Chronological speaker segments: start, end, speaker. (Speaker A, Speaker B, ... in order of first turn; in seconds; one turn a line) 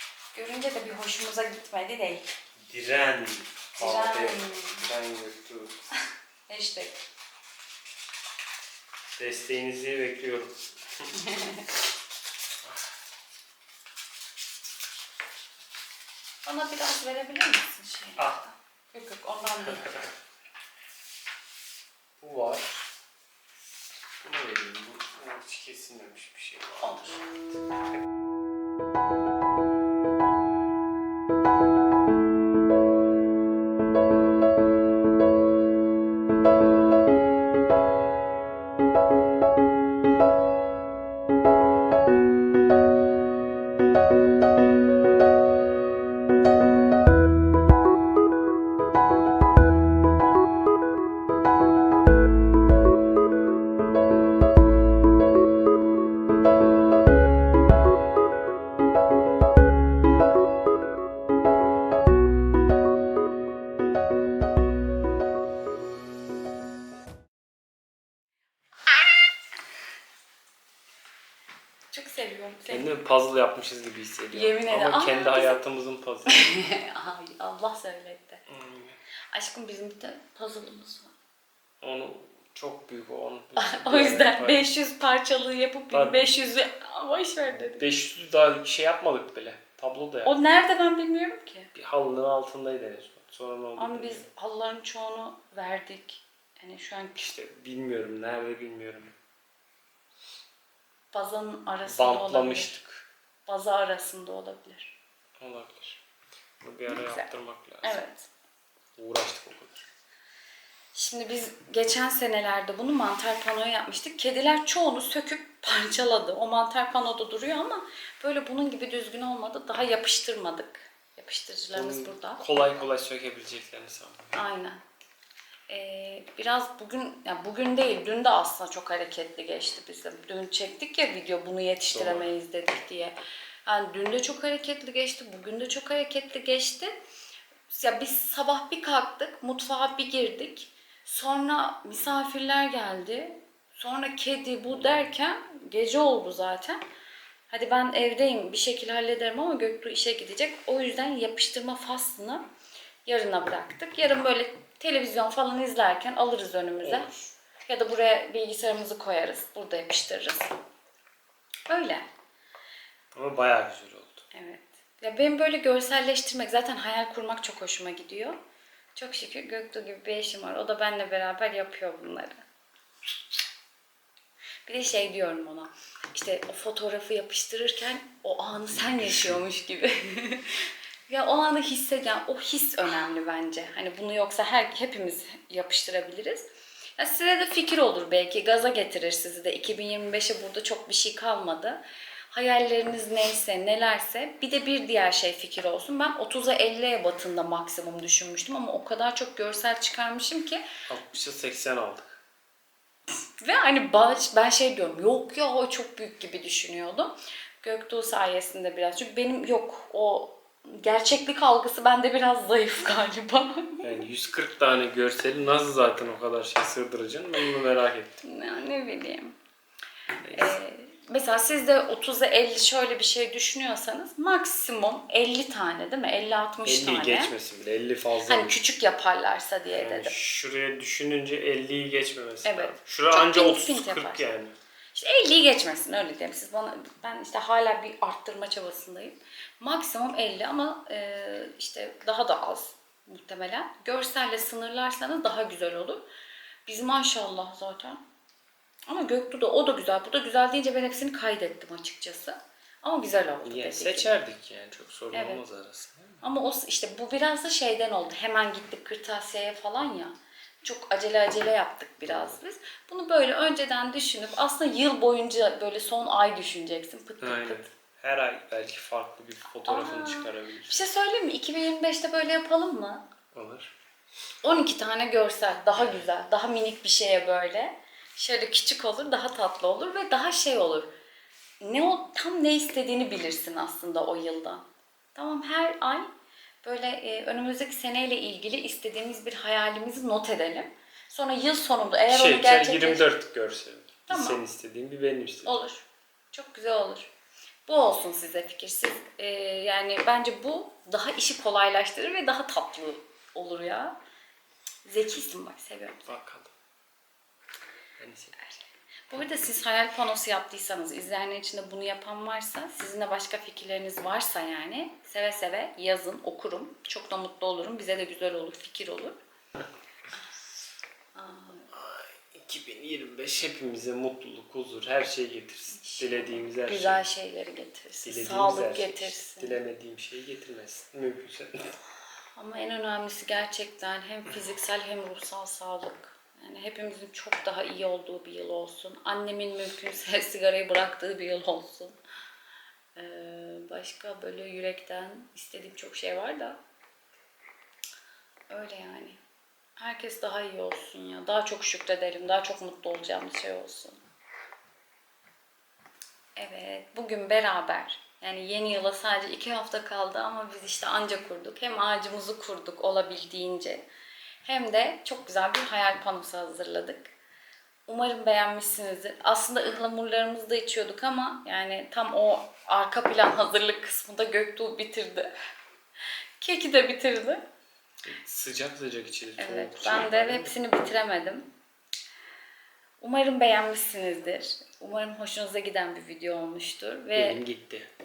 Speaker A: 0.3-2.3
Speaker B: 2.6-5.8
Speaker A: 3.8-4.8
Speaker A: 6.5-7.0
Speaker B: 9.2-10.6
Speaker A: 11.2-11.6
Speaker A: 16.4-20.1
Speaker B: 18.2-18.4
Speaker B: 22.2-22.9
Speaker B: 24.2-27.1
Speaker A: 26.8-27.2
Speaker A: 71.9-72.9
Speaker B: 72.7-76.5
Speaker A: 74.3-75.6
Speaker A: 76.3-78.4
Speaker B: 78.5-79.0
Speaker A: 79.3-81.1
Speaker B: 81.8-84.7
Speaker A: 83.6-87.8
Speaker B: 85.9-86.3
Speaker B: 87.5-90.5
Speaker A: 90.2-91.7
Speaker B: 91.8-94.3
Speaker A: 93.8-97.3
Speaker B: 97.2-99.1
Speaker A: 101.1-102.8
Speaker B: 101.8-103.1
Speaker A: 103.5-104.9
Speaker B: 105.4-106.0
Speaker B: 106.6-108.0
Speaker A: 106.9-107.3
Speaker A: 107.8-108.3
Speaker B: 109.0-109.9
Speaker A: 110.9-122.7
Speaker B: 121.7-124.4
Speaker A: 124.3-124.8
Speaker A: 125.7-136.9
Speaker B: 131.9-132.3
Speaker A: 137.7-146.8
Speaker A: 147.5-152.4
Speaker A: 153.1-157.1
Speaker B: 156.8-157.3
Speaker A: 157.7-160.5
Speaker A: 161.7-162.1
Speaker B: 163.1-164.3
Speaker A: 164.3-168.4
Speaker A: 168.9-172.4
Speaker A: 174.7-186.5
Speaker B: 178.7-179.4
Speaker A: 187.0-200.6
Speaker B: 200.9-202.2
Speaker A: 203.1-214.0
Speaker B: 213.8-218.2
Speaker A: 218.2-219.4
Speaker B: 220.2-220.6
Speaker A: 220.3-227.3
Speaker B: 226.7-228.6
Speaker A: 228.2-230.1
Speaker B: 229.7-234.5
Speaker A: 232.4-234.3
Speaker A: 234.9-246.1
Speaker A: 246.7-248.0
Speaker A: 248.9-254.1
Speaker B: 253.4-256.2
Speaker A: 255.1-255.4
Speaker A: 256.2-267.6
Speaker B: 262.0-262.4
Speaker B: 267.2-270.8
Speaker A: 269.7-273.0
Speaker B: 273.3-273.7
Speaker A: 274.4-280.9
Speaker A: 281.6-284.6
Speaker A: 285.1-286.1
Speaker A: 286.6-293.1
Speaker B: 292.1-295.5
Speaker A: 294.1-294.4
Speaker A: 295.4-297.1
Speaker A: 297.7-304.0
Speaker A: 304.9-306.1
Speaker B: 306.1-306.5
Speaker B: 308.0-308.5
Speaker A: 309.1-319.2
Speaker A: 321.1-321.7
Speaker B: 321.7-327.1
Speaker A: 325.8-329.6
Speaker B: 328.0-331.8
Speaker A: 332.4-342.0
Speaker A: 342.9-346.6
Speaker A: 348.5-349.2
Speaker A: 349.8-354.0
Speaker A: 356.4-363.9
Speaker A: 364.4-367.1
Speaker A: 367.9-375.3
Speaker A: 376.4-377.4
Speaker B: 378.0-380.6
Speaker A: 379.4-381.5
Speaker A: 383.0-387.4
Speaker B: 387.1-387.9